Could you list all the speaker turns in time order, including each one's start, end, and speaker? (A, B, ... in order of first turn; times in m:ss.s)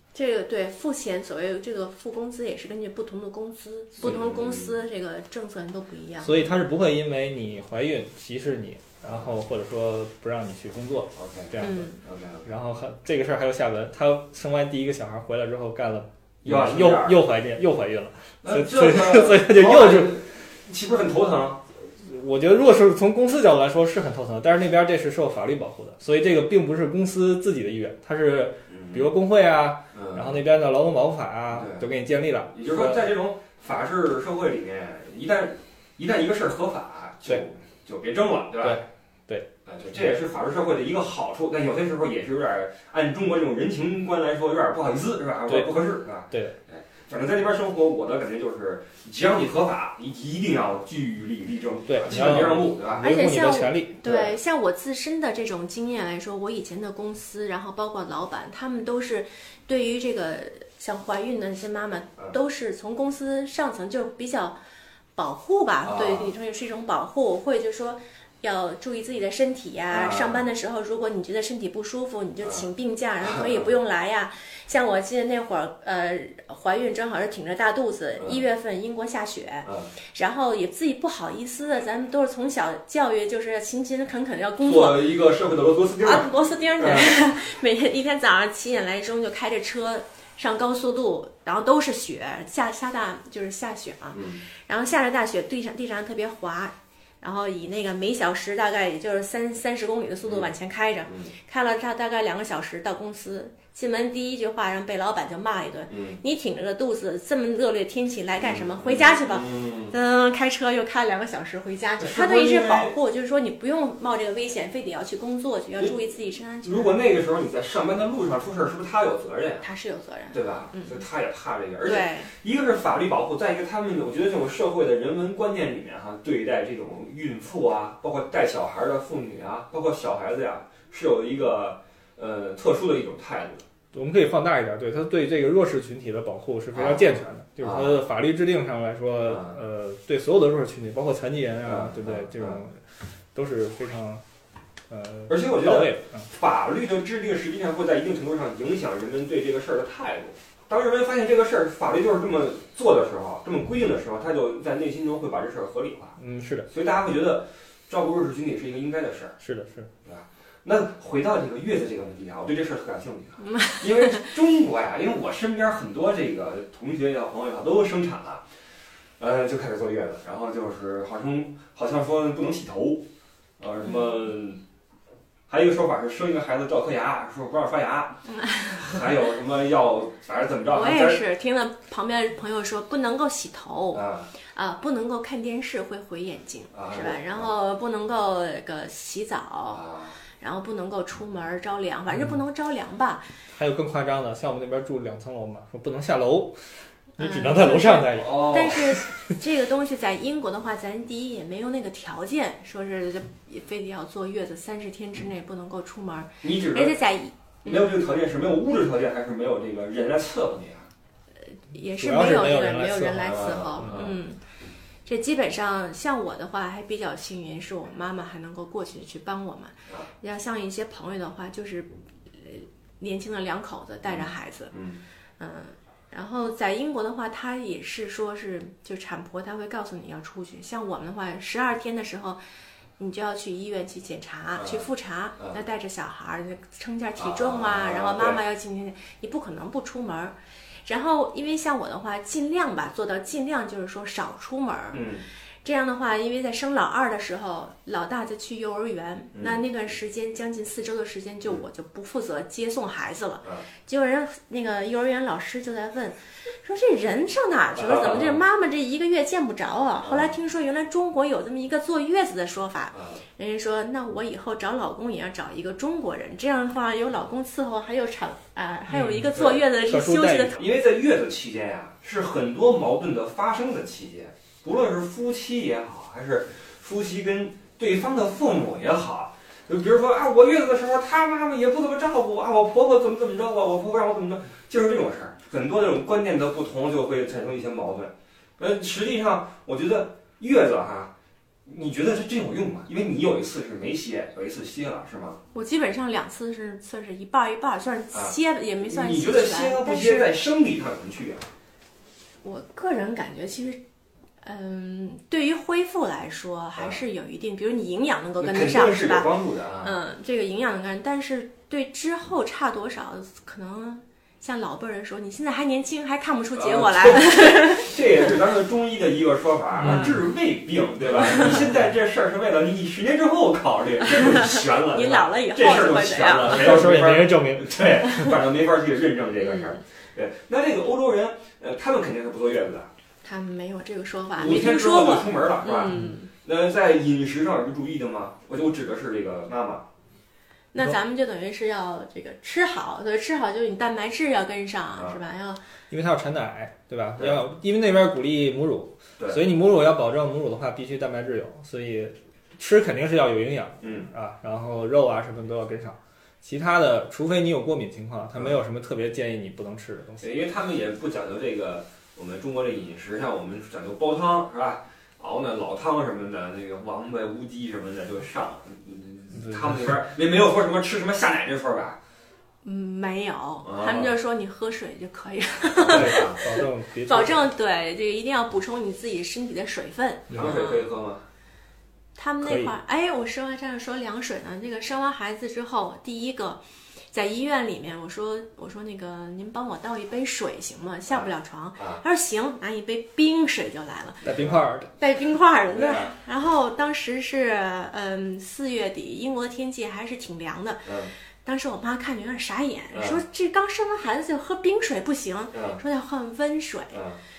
0:00.1-0:06.5 A
0:04.0-0:04.7 B
0:06.2-0:11.9 C
0:11.2-0:12.5 B
0:11.6-0:12.0 A
0:12.4-0:20.2 C
0:16.4-0:17.2 B
0:18.4-0:21.6 B
0:21.8-0:33.1 C
0:28.7-0:29.0 B
0:29.9-0:30.4 B
0:31.5-0:31.8 B
0:32.5-0:38.8 B
0:38.6-0:40.1 C
0:39.7-0:53.1 B
0:45.5-0:45.7 C
0:46.3-0:46.6 C
0:51.9-0:54.2 C
0:53.0-1:04.6 A
0:54.0-0:54.3 B
1:05.2-1:25.2 A
1:05.8-1:06.3 B
1:09.9-1:10.4 B
1:13.2-1:13.6 B
1:24.6-1:27.2 B
1:26.0-1:57.0 A
1:34.2-1:34.4 B
1:41.1-1:41.3 B
1:45.9-1:46.2 B
1:48.4-1:50.0 B
1:52.0-1:53.0 B
1:56.6-1:59.6 B
1:59.6-2:01.0 A
2:00.3-2:13.6 B
2:01.8-2:02.3 A
2:13.9-2:24.2 C
2:16.7-2:18.0 B
2:19.3-2:19.6 B
2:21.6-2:22.6 B
2:24.9-2:26.3 C
2:25.3-2:36.2 B
2:36.2-2:36.7 C
2:36.7-2:39.4 B
2:39.4-2:39.9 C
2:40.0-2:48.5 B
2:43.4-2:44.3 A
2:49.2-2:53.1 B
2:53.6-2:54.6 B
2:55.5-2:58.2 B
2:58.3-2:59.0 A
2:58.8-3:01.2 B
3:00.7-3:13.3 A
3:03.9-3:04.3 B
3:06.7-3:07.5 B
3:09.7-3:10.2 B
3:13.5-3:19.1 C
3:17.2-3:27.9 A
3:18.1-3:18.9 B
3:26.4-3:27.0 B
3:27.6-3:30.9 B
3:31.7-3:34.4 A
3:32.0-3:34.1 C
3:33.2-3:34.1 B
3:35.0-3:44.7 A
3:44.1-3:45.0 B
3:45.4-3:52.4 A
3:53.0-4:05.1 A
3:54.6-3:54.9 B
3:57.2-3:58.4 B
4:04.9-4:05.3 B
4:05.6-4:30.6 A
4:09.4-4:09.6 B
4:17.8-4:18.4 B
4:20.0-4:20.3 B
4:22.9-4:23.2 B
4:28.9-4:30.6 C
4:30.6-4:51.1 B
4:51.7-4:55.4 B
4:55.5-5:00.3 A
4:58.1-5:01.5 B
5:02.4-5:03.8 A
5:04.4-5:18.0 A
5:08.4-5:10.0 B
5:16.6-5:32.9 B
5:19.8-5:20.2 C
5:24.0-5:26.9 A
5:26.4-5:28.4 C
5:29.4-5:29.8 A
5:33.2-5:36.3 A
5:34.4-5:39.9 B
5:40.7-5:45.7 A
5:45.9-6:00.3 C
5:53.8-5:54.1 B
6:00.2-6:12.0 B
6:09.4-6:09.8 C
6:12.6-6:20.8 A
6:13.6-6:14.1 B
6:15.8-6:16.4 B
6:15.8-6:17.5 C
6:20.3-6:20.6 C
6:20.3-6:21.3 B
6:22.2-6:34.3 A
6:22.4-6:22.7 C
6:31.8-6:32.0 B
6:34.2-6:34.9 C
6:34.3-6:34.6 B
6:35.0-6:47.0 A
6:35.7-6:36.2 B
6:40.9-6:41.1 B
6:42.9-6:43.2 B
6:45.5-6:45.8 B
6:46.9-6:47.2 B